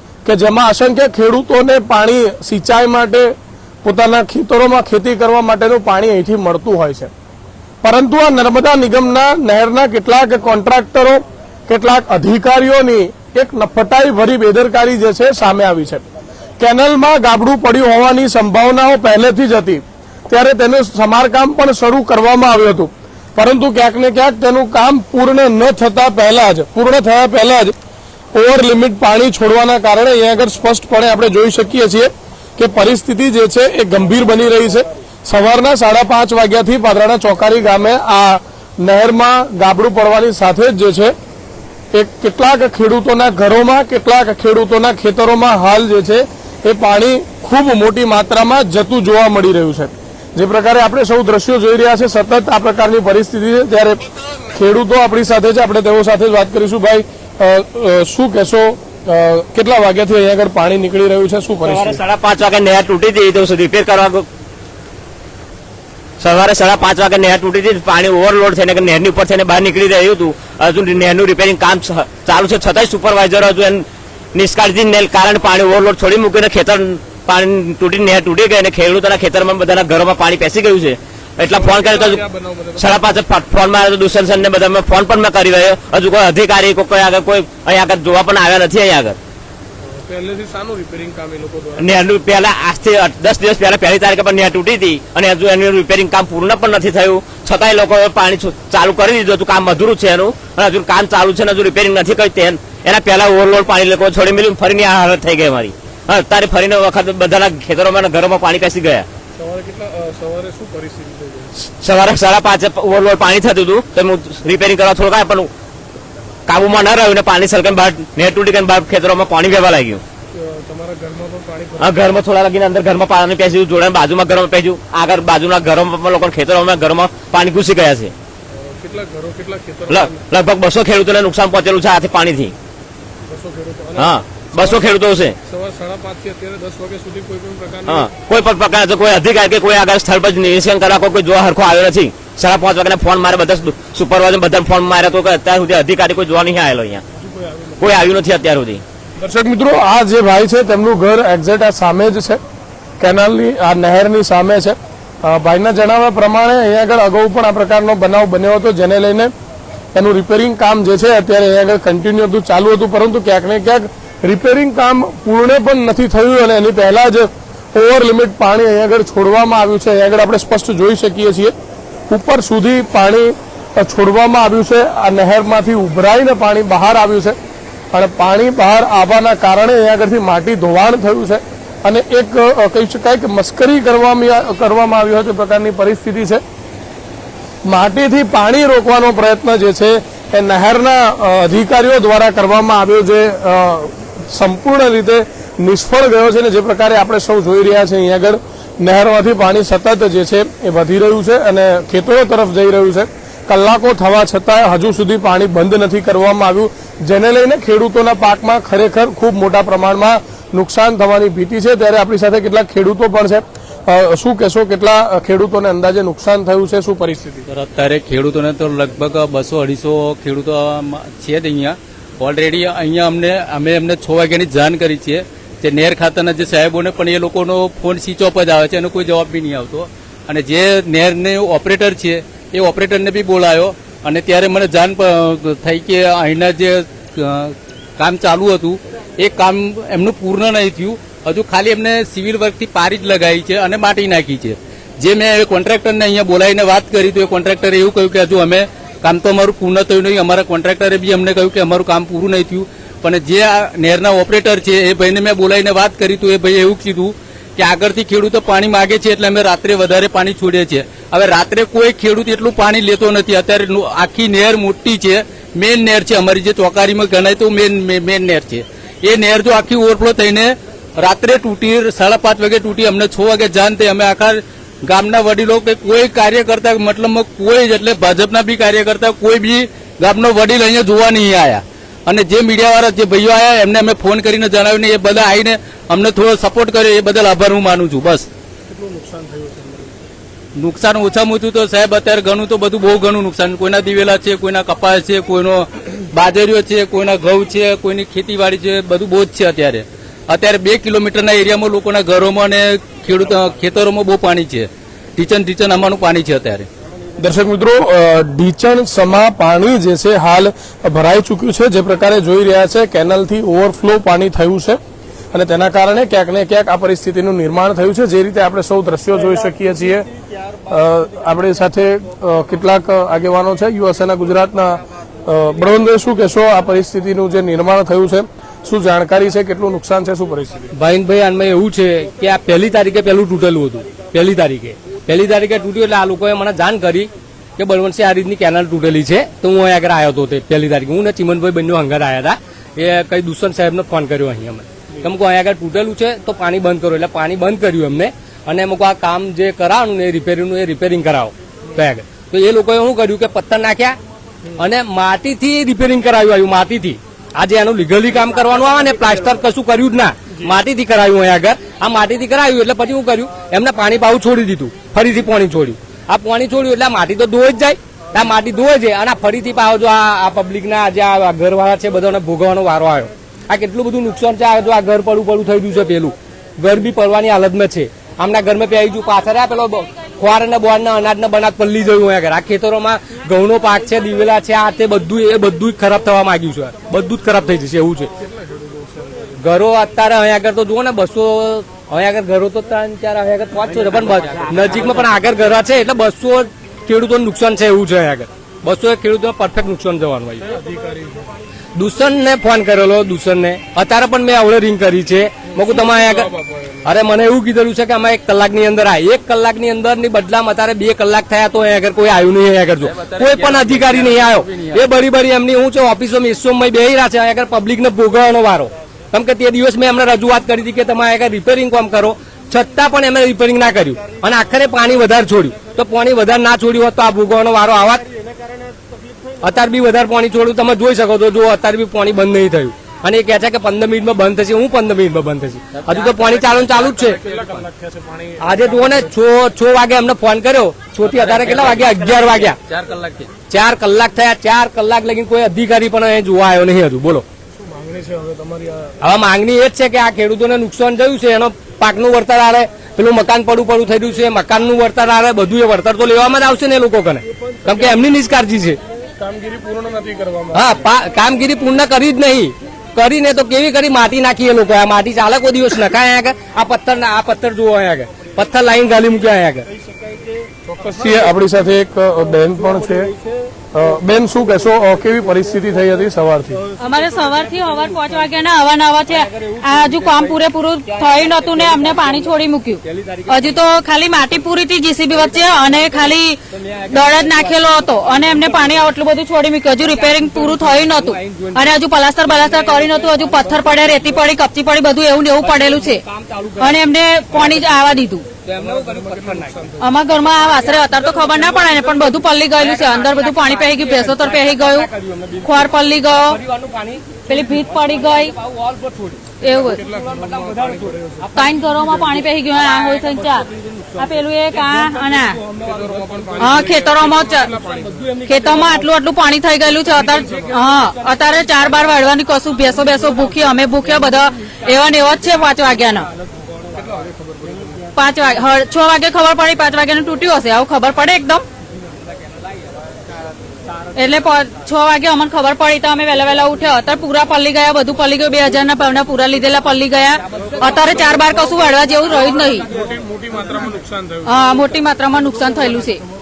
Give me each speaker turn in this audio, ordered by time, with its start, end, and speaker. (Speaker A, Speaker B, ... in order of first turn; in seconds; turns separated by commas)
Speaker A: 0.2-7.1, Speaker A: 7.8-16.0, Speaker A: 16.6-27.8, Speaker A: 28.3-41.1, Speaker A: 41.9-62.0, Speaker B: 61.6-64.3, Speaker B: 66.2-82.2, Speaker A: 81.4-83.1, Speaker B: 82.8-89.2, Speaker A: 89.9-92.0, Speaker B: 91.8-109.1, Speaker A: 109.4-111.5, Speaker B: 111.8-115.5, Speaker B: 116.5-120.0, Speaker A: 120.4-122.0, Speaker B: 121.8-128.1, Speaker A: 128.5-130.2, Speaker B: 129.9-132.5, Speaker A: 133.3-138.1, Speaker B: 134.0-135.4, Speaker B: 137.9-147.0, Speaker A: 147.2-147.8, Speaker B: 147.8-148.8, Speaker A: 149.2-152.4, Speaker A: 153.0-159.3, Speaker A: 159.9-171.5, Speaker A: 172.1-177.4, Speaker A: 177.9-186.4, Speaker A: 187.7-217.5, Speaker C: 217.5-288.3, Speaker A: 288.7-290.1, Speaker C: 290.6-306.7, Speaker A: 307.2-314.8, Speaker A: 315.3-320.1, Speaker A: 320.7-330.7, Speaker D: 330.8-354.0, Speaker D: 354.6-388.1, Speaker A: 388.2-389.4, Speaker D: 389.4-400.4, Speaker A: 400.4-401.2, Speaker D: 401.8-406.3, Speaker A: 405.6-406.9, Speaker D: 406.9-428.1, Speaker C: 412.8-414.9, Speaker D: 429.4-437.2, Speaker C: 435.7-437.1, Speaker A: 436.8-439.1, Speaker D: 438.4-442.6, Speaker C: 441.0-443.3, Speaker D: 443.5-447.3, Speaker A: 447.6-449.0, Speaker D: 449.0-458.8, Speaker A: 459.2-460.8, Speaker D: 460.5-469.7, Speaker A: 470.6-473.1, Speaker D: 472.6-473.5, Speaker A: 473.7-476.6, Speaker D: 476.8-478.4, Speaker E: 476.8-496.1, Speaker D: 479.1-484.5, Speaker D: 485.1-489.0, Speaker D: 489.8-494.4, Speaker D: 495.4-516.5, Speaker E: 496.6-498.3, Speaker A: 498.6-499.9, Speaker E: 499.8-504.9, Speaker E: 505.4-506.4, Speaker E: 507.3-508.3, Speaker E: 509.4-509.8, Speaker A: 509.6-511.3, Speaker E: 511.3-513.5, Speaker E: 514.0-515.4, Speaker A: 515.6-518.1, Speaker E: 516.4-517.5, Speaker D: 517.6-518.9, Speaker E: 518.2-526.1, Speaker D: 519.8-522.1, Speaker D: 522.7-523.3, Speaker A: 526.8-527.8, Speaker E: 528.0-531.4, Speaker E: 534.0-542.7, Speaker D: 540.4-541.4, Speaker A: 542.7-544.3, Speaker E: 544.2-546.0